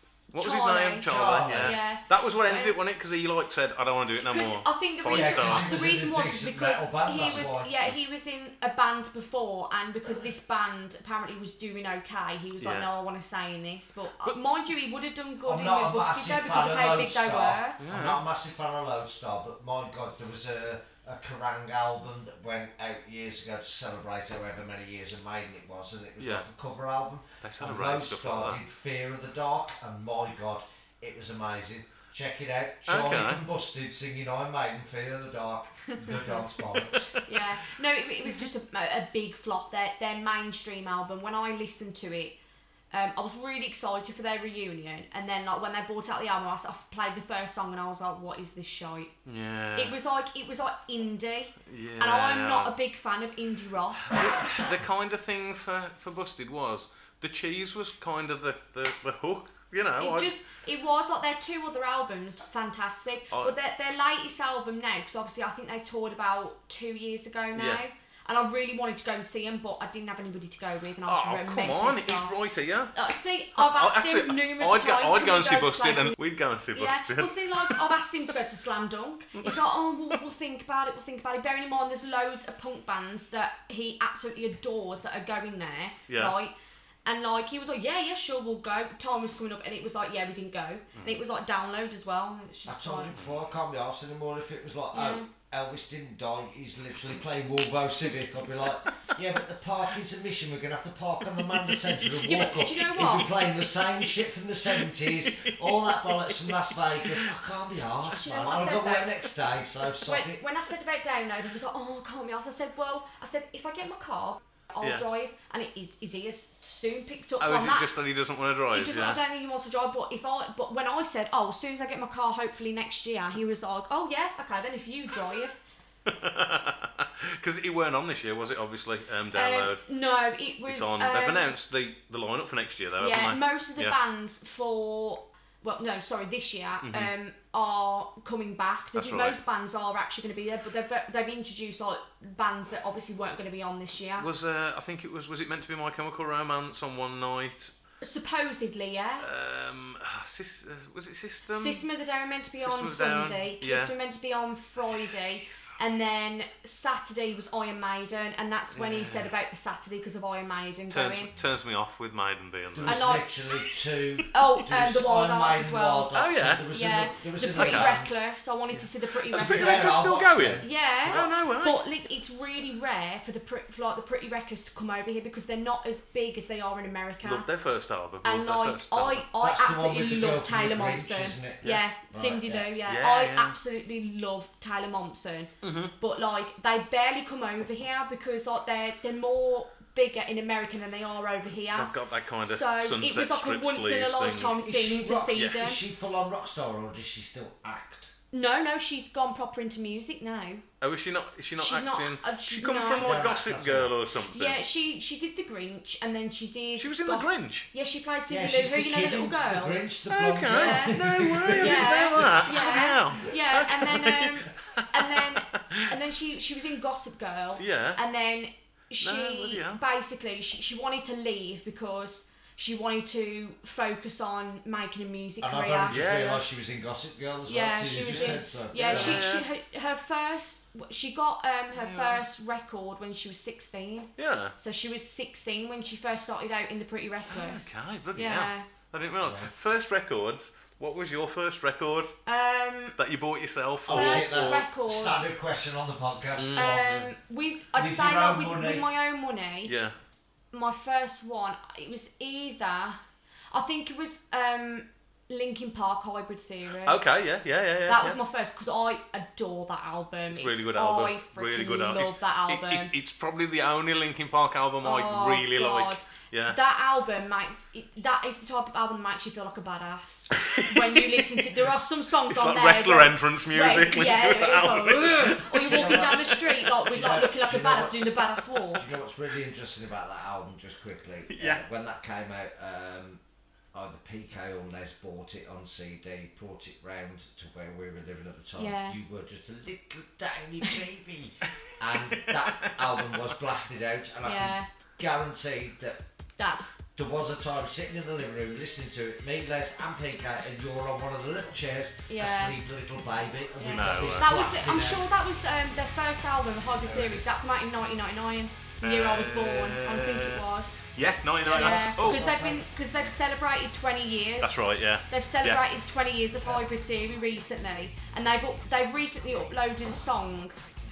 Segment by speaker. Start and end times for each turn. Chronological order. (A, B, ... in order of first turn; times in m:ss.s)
0:00.3-0:05.7 A
0:00.4-0:02.8 B
0:01.0-0:01.8 C
0:04.2-0:17.8 B
0:05.0-0:07.7 C
0:12.6-0:12.9 A
0:15.5-0:37.1 C
0:17.8-0:18.2 A
0:26.2-0:26.5 A
0:27.4-0:28.6 A
0:32.9-0:33.4 A
0:37.2-0:42.4 B
0:42.9-0:49.1 B
0:49.3-0:50.0 A
0:49.8-0:54.5 B
0:51.7-0:52.8 A
0:54.1-1:00.3 A
1:00.0-1:12.3 B
1:07.6-1:07.8 A
1:11.1-1:12.9 A
1:12.9-1:16.2 B
1:13.6-1:17.9 A
1:16.7-1:26.5 B
1:19.4-1:19.6 A
1:26.1-1:26.4 A
1:27.0-1:33.1 B
1:32.7-1:50.4 C
1:33.1-1:33.4 A
1:34.9-1:35.3 B
1:41.7-1:42.0 A
1:42.2-1:43.3 B
1:44.8-1:47.3 A
1:48.1-1:49.1 B
1:50.0-1:57.9 B
1:57.4-1:59.2 A
1:58.7-2:05.6 B
2:06.1-2:09.9 A
2:09.3-2:11.5 B
2:10.6-2:14.0 A
2:13.0-2:24.3 B
2:16.8-2:17.1 A
2:19.0-2:19.4 A
2:24.2-2:27.7 A
2:28.0-2:29.3 B
2:29.2-2:31.8 A
2:31.5-2:41.3 B
2:32.6-2:33.9 A
2:38.7-2:39.3 A
2:40.9-2:43.7 A
2:42.7-2:48.1 C
2:42.8-2:43.3 B
2:44.3-2:46.1 B
2:46.1-2:46.6 A
2:46.7-2:50.1 B
2:47.5-2:48.0 A
2:48.7-2:51.8 A
2:49.3-2:51.2 C
2:50.6-2:57.5 B
2:57.2-2:59.3 A
2:58.2-3:11.9 B
2:59.4-3:02.7 C
3:02.9-3:03.6 A
3:05.6-3:05.9 A
3:11.7-3:14.6 A
3:12.4-3:15.8 B
3:14.6-3:18.1 C
3:15.3-3:15.6 A
3:18.3-3:20.6 B
3:20.8-3:24.6 A
3:21.6-3:23.3 B
3:22.9-3:23.9 C
3:24.3-3:31.0 B
3:26.8-3:27.7 A
3:28.3-3:32.8 C
3:30.1-3:35.8 A
3:31.6-3:46.0 B
3:37.6-3:38.0 A
3:39.0-3:39.8 A
3:45.4-3:49.2 C
3:45.9-3:46.4 A
3:47.5-3:58.7 B
3:48.1-3:49.5 A
3:51.7-3:52.2 A
3:54.2-3:54.6 A
3:57.3-4:02.1 A
3:59.2-3:59.5 C
4:02.3-4:03.0 B
4:03.0-4:04.7 A
4:03.8-4:07.1 C
4:03.9-4:05.2 B
4:06.4-4:07.0 A
4:06.6-4:09.7 B
4:07.7-4:08.9 C
4:09.6-4:10.0 A
4:10.5-4:13.0 B
4:13.5-4:17.0 B
4:16.8-4:18.2 A
4:17.9-4:22.9 B
4:20.3-4:26.6 A
4:24.8-4:38.8 B
4:30.4-4:31.4 A
4:32.3-4:36.6 A
4:35.6-4:38.2 C
4:38.7-4:43.2 C
4:41.3-4:41.6 A
4:43.7-4:56.0 C
4:48.6-4:49.0 B
4:52.2-4:53.1 A
4:54.2-4:54.7 B
4:56.4-4:56.7 B
4:57.0-5:05.1 C
5:02.1-5:02.6 B
5:03.6-5:10.8 B
5:03.7-5:04.3 A
5:06.8-5:07.3 C
5:08.8-5:12.4 A
5:11.4-5:20.6 B
5:11.5-5:12.6 C
5:14.4-5:15.6 A